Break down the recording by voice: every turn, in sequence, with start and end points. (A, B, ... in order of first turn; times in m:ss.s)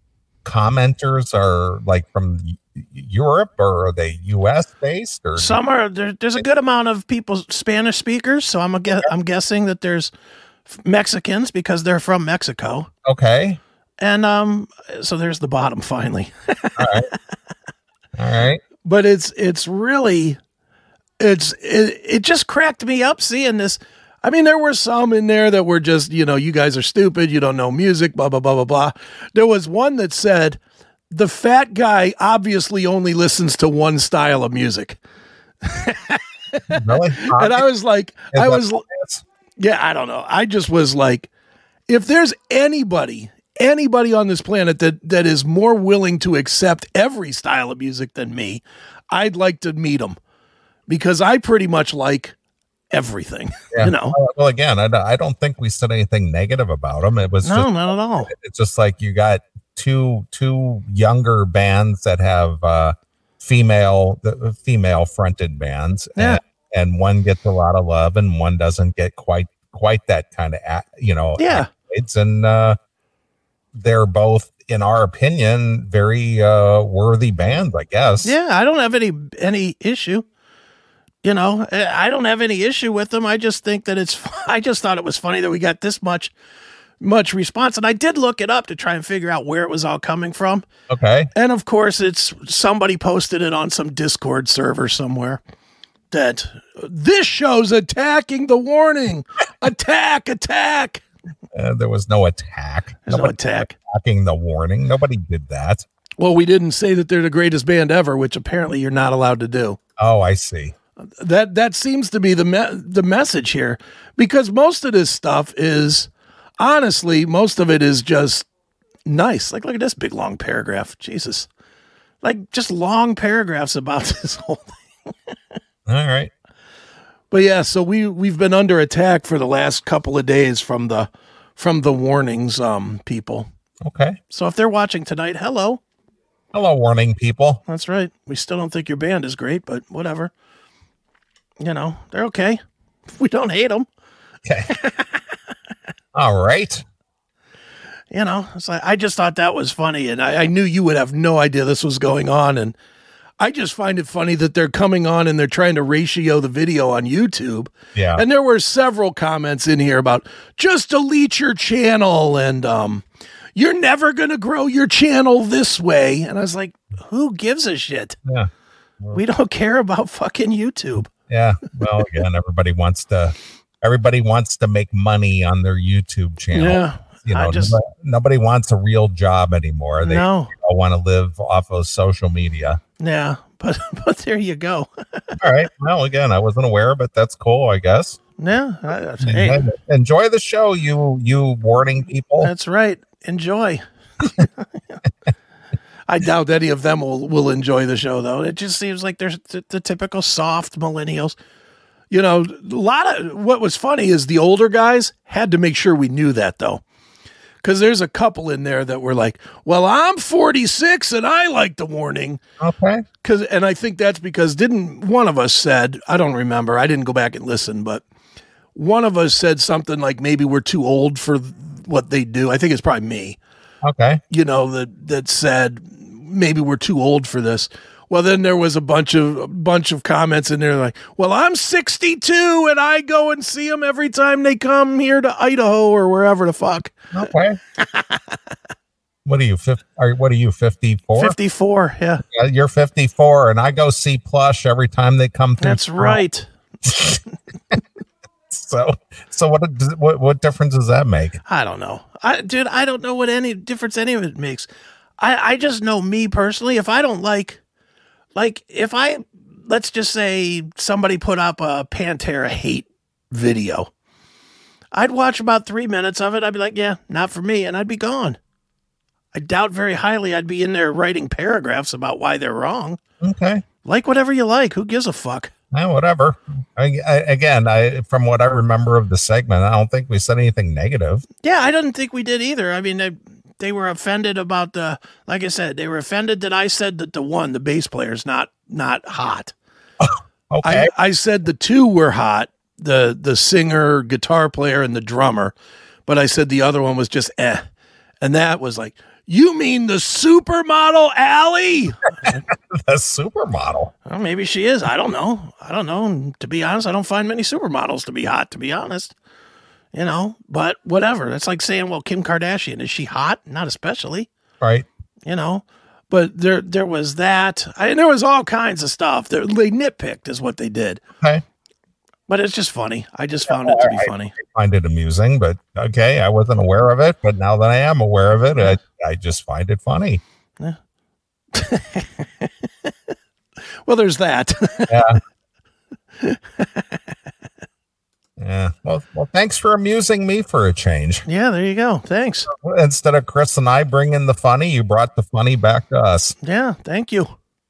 0:00.4-0:05.6 A
0:05.4-0:10.1 B
0:10.7-0:12.9 B
0:13.0-0:13.6 A
0:14.0-0:17.2 B
0:16.8-0:17.1 A
0:18.2-0:18.6 A
0:18.8-0:20.4 B
0:21.2-0:30.6 B
0:31.1-0:35.0 B
0:35.6-0:38.9 B
0:36.7-0:37.6 A
0:38.3-0:39.2 A
0:39.6-0:41.3 B
0:41.9-0:50.2 B
0:50.9-0:52.4 B
0:52.9-0:54.2 B
0:53.7-1:12.8 A
0:57.4-0:58.3 B
1:11.4-1:11.7 B
1:13.8-1:18.4 A
1:18.2-1:20.3 B
1:21.2-1:26.3 B
1:27.0-1:30.6 B
1:30.9-1:31.3 A
1:31.4-1:35.4 B
1:36.1-1:41.0 B
1:41.5-1:45.8 A
1:43.1-1:43.7 B
1:46.2-1:49.8 B
1:50.0-1:50.8 A
1:51.2-1:58.5 B
1:59.1-2:01.5 B
2:02.2-2:04.8 B
2:05.9-2:06.3 A
2:07.3-2:13.5 B
2:13.8-2:14.2 A
2:14.3-2:15.8 B
2:16.5-2:17.6 A
2:17.7-2:20.3 B
2:21.6-2:22.6 B
2:23.1-2:23.9 B
2:24.4-2:24.7 A
2:24.7-2:25.2 B
2:26.1-2:26.8 A
2:28.1-2:32.8 B
2:33.4-2:48.2 B
2:38.0-2:38.2 A
2:48.2-2:48.5 A
2:49.1-2:51.1 B
2:51.3-3:02.8 A
2:56.5-2:57.8 B
3:00.0-3:00.5 B
3:03.0-3:05.4 B
3:05.4-3:08.2 A
3:08.4-3:09.6 B
3:09.2-3:12.5 A
3:12.4-3:15.0 B
3:16.1-3:21.4 B
3:22.1-3:26.8 B
3:27.6-3:32.4 B
3:32.6-3:33.0 A
3:33.2-3:38.0 B
3:38.8-3:43.4 B
3:43.8-3:44.2 A
3:44.3-3:57.1 B
3:57.1-3:57.6 A
3:59.2-4:01.4 A
4:01.2-4:02.2 B
4:02.2-4:06.2 A
4:05.6-4:06.5 B
4:06.9-4:07.2 A
4:08.5-4:11.4 A
4:11.5-4:14.7 B
4:15.2-4:17.6 B
4:18.4-4:23.9 B
4:24.9-4:28.4 B
4:29.3-4:33.0 B
4:33.2-4:33.6 A
4:33.8-4:35.5 B
4:35.7-4:41.3 A
4:41.4-4:49.5 B
4:50.0-4:50.9 A
4:50.6-4:55.6 B
4:56.1-4:57.6 B
4:58.2-5:02.4 B
5:02.2-5:03.9 A
5:04.1-5:09.2 B
5:09.9-5:14.3 B
5:14.6-5:14.9 A
5:15.2-5:21.0 B
5:22.3-5:24.4 B
5:23.5-5:30.2 A
5:31.5-5:32.9 B
5:33.8-5:34.9 B
5:34.9-5:35.2 A
5:36.2-5:37.0 B
5:38.4-5:41.3 A
5:41.3-5:42.5 B
5:42.5-5:46.4 A
5:46.4-5:47.4 B